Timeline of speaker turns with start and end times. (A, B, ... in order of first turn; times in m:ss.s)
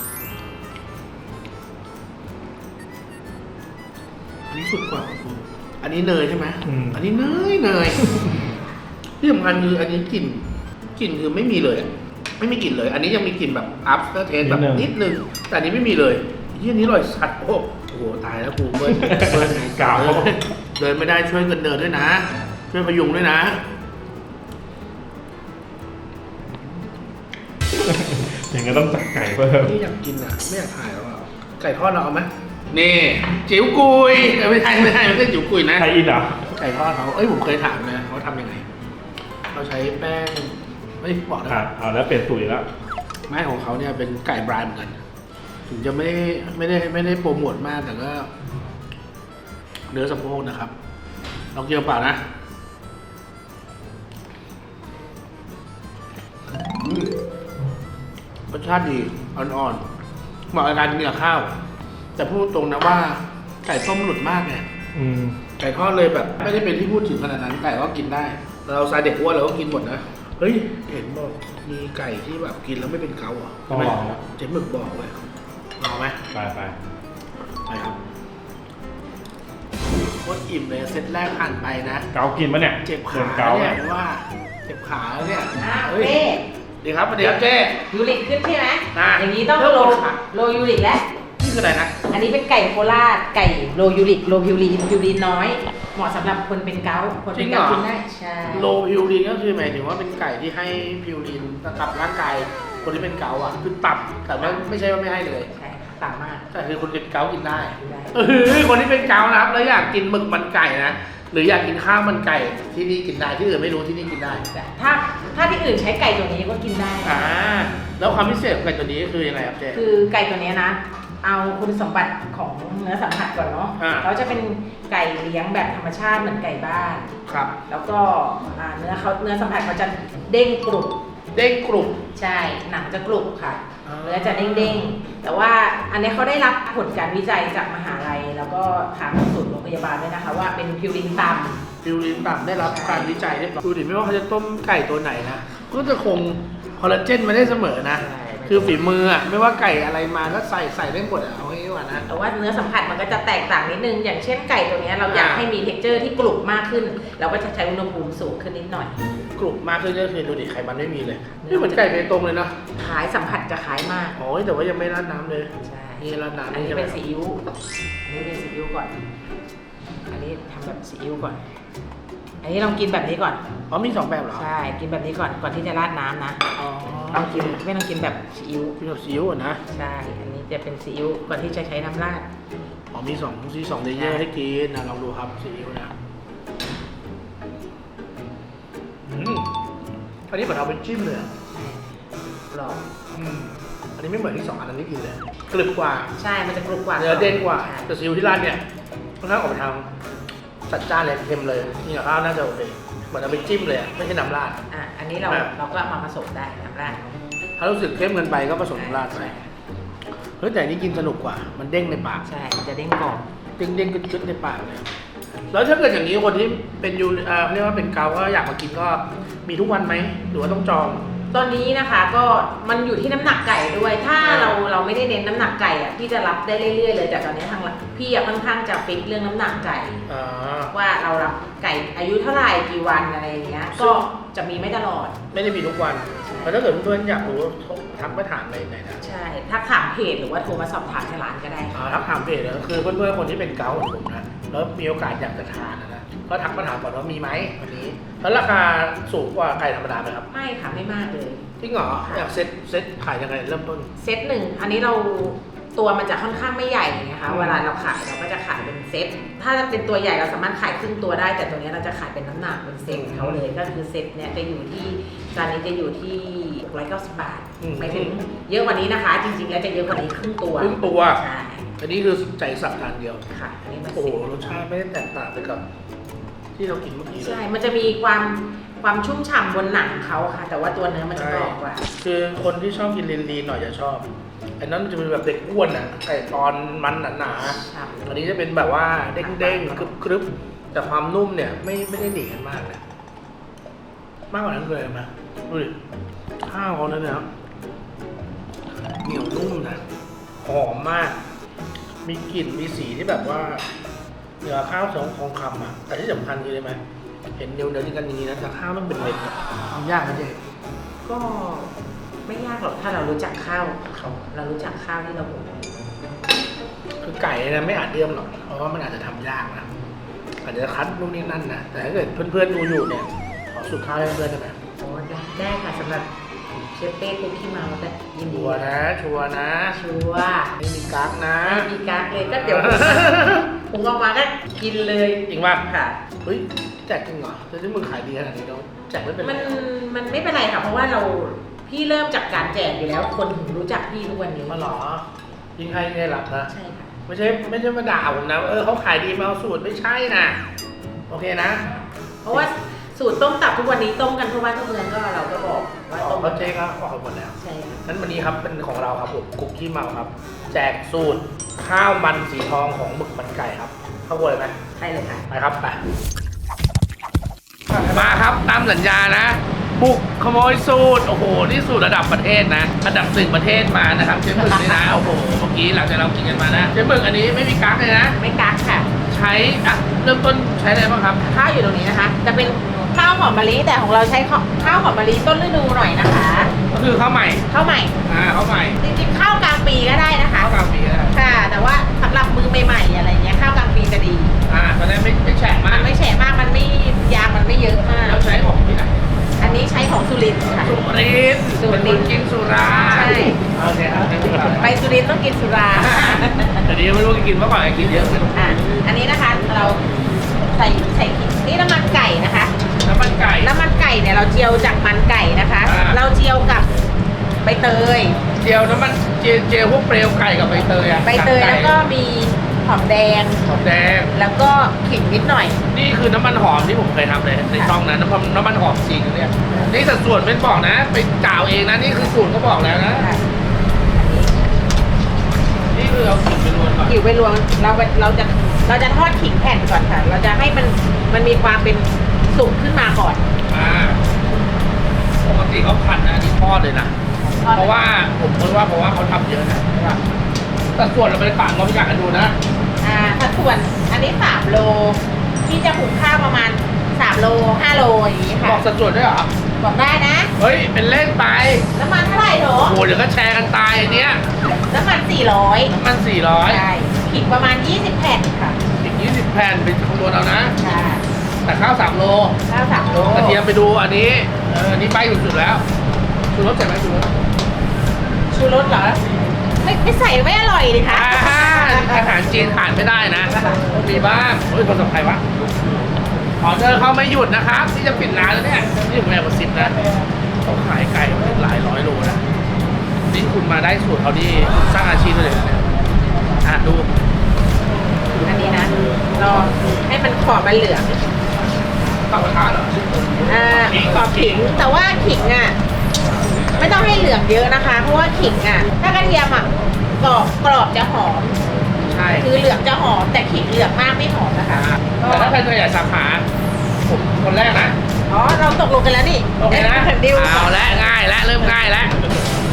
0:04.5-0:08.0 A
0:06.6-0:07.0 B
0:08.0-0:08.4 B
0:09.2-0:23.6 A
0:14.4-0:14.9 B
0:18.9-0:20.4 B
0:27.7-0:29.8 B
0:29.6-0:35.9 A
0:35.8-0:36.6 B
0:36.6-0:38.6 A
0:39.5-0:41.6 A
0:41.5-0:42.7 B
0:43.3-0:45.0 A
0:45.7-0:48.3 A
0:49.9-0:50.7 A
0:51.5-0:52.2 A
0:56.8-0:57.1 A
0:58.5-0:59.8 A
1:00.5-1:01.6 A
1:02.2-1:04.7 A
1:04.9-1:05.4 B
1:05.6-1:15.2 A
1:13.7-1:14.2 B
1:15.8-1:16.2 A
1:16.3-1:16.8 B
1:17.7-1:18.0 A
1:20.2-1:22.1 A
1:22.1-1:23.8 B
1:22.8-1:26.2 A
1:25.6-1:26.4 C
1:26.8-1:27.8 A
1:27.9-1:31.0 C
1:28.9-1:30.2 A
1:31.4-1:32.0 A
1:32.1-1:38.8 C
1:37.3-1:37.9 A
1:38.5-1:45.5 A
1:44.4-1:44.6 C
1:45.5-1:46.5 C
1:46.5-1:54.4 A
1:47.8-1:48.2 C
1:54.5-1:57.3 C
1:57.0-1:59.8 A
1:59.7-2:07.1 C
2:03.8-2:04.1 A
2:07.3-2:07.6 A
2:07.7-2:11.0 C
2:11.3-2:12.0 A
2:12.2-2:21.6 C
2:13.8-2:14.9 A
2:21.8-2:32.1 A
2:22.6-2:23.2 C
2:28.0-2:28.9 C
2:32.1-2:38.9 C
2:35.1-2:35.5 A
2:39.4-2:42.6 A
2:41.4-2:42.1 C
2:42.8-2:44.2 C
2:44.2-2:47.0 A
2:45.6-2:47.4 C
2:48.1-2:49.0 C
2:50.1-2:51.4 C
2:52.4-2:53.4 C
2:53.7-2:54.5 A
2:54.4-2:56.6 C
2:56.6-2:57.6 A
2:57.1-2:58.8 C
2:58.8-2:59.6 A
2:59.7-3:02.3 C
3:02.9-3:05.9 A
3:04.0-3:04.2 C
3:09.1-3:09.5 A
3:10.3-3:11.3 A
3:11.5-3:12.9 C
3:13.1-3:16.1 A
3:16.2-3:17.8 C
3:17.0-3:18.6 A
3:19.2-3:19.9 A
3:20.7-3:24.6 A
3:24.7-3:27.2 C
3:25.2-3:25.5 A
3:27.6-3:29.3 A
3:28.8-3:29.5 C
3:30.4-3:32.3 A
3:32.3-3:33.3 C
3:33.6-3:34.9 A
3:35.5-3:41.1 A
3:41.3-3:50.0 C
3:44.2-3:44.6 A
3:50.1-3:50.7 A
3:50.7-3:55.2 C
3:53.7-3:54.1 A
3:55.3-3:59.0 A
3:56.2-3:56.6 C
3:59.0-4:02.0 C
4:01.7-4:10.3 A
4:10.3-4:11.5 C
4:11.6-4:13.9 A
4:12.0-4:12.3 C
4:14.0-4:31.7 C
4:17.3-4:17.6 A
4:22.9-4:23.4 A
4:27.6-4:28.2 A
4:30.6-4:31.2 A
4:31.8-4:33.2 A
4:33.3-4:34.3 C
4:33.9-4:35.6 A
4:36.6-4:37.4 A
4:37.2-4:41.9 C
4:41.1-4:44.1 A
4:44.6-4:52.8 A
4:47.4-4:48.1 C
4:49.2-4:49.9 C
4:54.3-4:55.8 A
4:56.4-4:57.3 A
4:59.0-4:59.8 A
5:00.4-5:01.2 A
5:02.0-5:03.7 A
5:04.4-5:06.8 A
5:07.4-5:10.4 A
5:11.0-5:11.7 C
5:12.2-5:15.9 C
5:17.0-5:19.7 A
5:20.4-5:24.6 A
5:24.8-5:28.8 C
5:28.3-5:29.8 A
5:29.8-5:30.6 C
5:30.6-5:31.7 A
5:31.4-5:36.0 C
5:32.2-5:33.6 A
5:35.3-5:35.6 A
5:36.2-5:39.6 A
5:39.2-5:44.7 C
5:44.5-5:46.5 A
5:46.5-5:46.9 C
5:47.1-5:50.4 A
5:51.1-5:51.7 A
5:52.2-5:56.6 C
5:56.0-6:04.6 A
5:57.4-5:57.8 C
6:04.8-6:05.3 C
6:05.3-6:05.8 A
6:07.7-6:18.2 A
6:14.3-6:15.0 C
6:18.2-6:18.9 C
6:19.1-6:21.2 A
6:21.3-6:26.5 C
6:26.7-6:27.5 A
6:27.5-6:27.9 C
6:28.0-6:28.8 A
6:28.8-6:30.5 C
6:30.4-6:31.2 A
6:31.1-6:34.4 C
6:34.5-6:35.9 A
6:35.7-6:38.2 C
6:38.0-6:39.0 A
6:39.4-6:40.8 C
6:40.6-6:44.7 A
6:41.6-6:42.2 C
6:42.9-6:43.4 C
6:44.6-6:46.7 C
6:46.6-6:48.6 A
6:48.4-6:50.0 C
6:50.5-6:52.5 C
6:52.8-6:53.5 A
6:53.4-6:56.7 C
6:55.6-6:56.0 A
6:57.4-6:58.2 C
6:58.3-7:01.8 A
7:01.0-7:03.5 C
7:03.4-7:04.1 A
7:04.1-7:05.6 C
7:05.7-7:13.1 A
7:09.5-7:09.8 C
7:13.0-7:13.3 C
7:13.9-7:14.4 C
7:15.7-7:17.0 A
7:16.9-7:23.2 C
7:23.5-7:24.1 A
7:25.2-7:27.0 A
7:27.2-7:27.8 C
7:27.5-7:30.0 A
7:30.8-7:32.4 A
7:32.8-7:38.6 C
7:38.4-7:39.3 A
7:39.6-7:40.3 C
7:40.4-7:41.7 A
7:41.8-7:42.8 C
7:42.6-7:44.2 A
7:44.4-7:45.7 C
7:45.7-7:46.6 A
7:46.5-7:48.6 C
7:48.8-7:50.6 A
7:50.6-7:51.1 C
7:51.4-7:52.4 A
7:52.5-7:53.4 C
7:52.9-7:55.6 A
7:56.3-7:57.1 A
7:58.3-7:59.0 C
7:59.6-8:02.2 C
8:00.9-8:05.2 A
8:03.3-8:03.6 C
8:06.4-8:09.8 A
8:10.4-8:12.2 A
8:13.1-8:15.7 A
8:16.4-8:16.9 A
8:18.2-8:21.0 C
8:22.1-8:24.6 A
8:23.3-8:25.6 C
8:26.5-8:26.9 A
8:26.6-8:31.4 C
8:31.8-8:32.3 A
8:32.2-8:35.4 C
8:34.6-8:36.3 A
8:36.9-8:37.8 A
8:38.1-8:41.0 C
8:39.4-8:42.0 A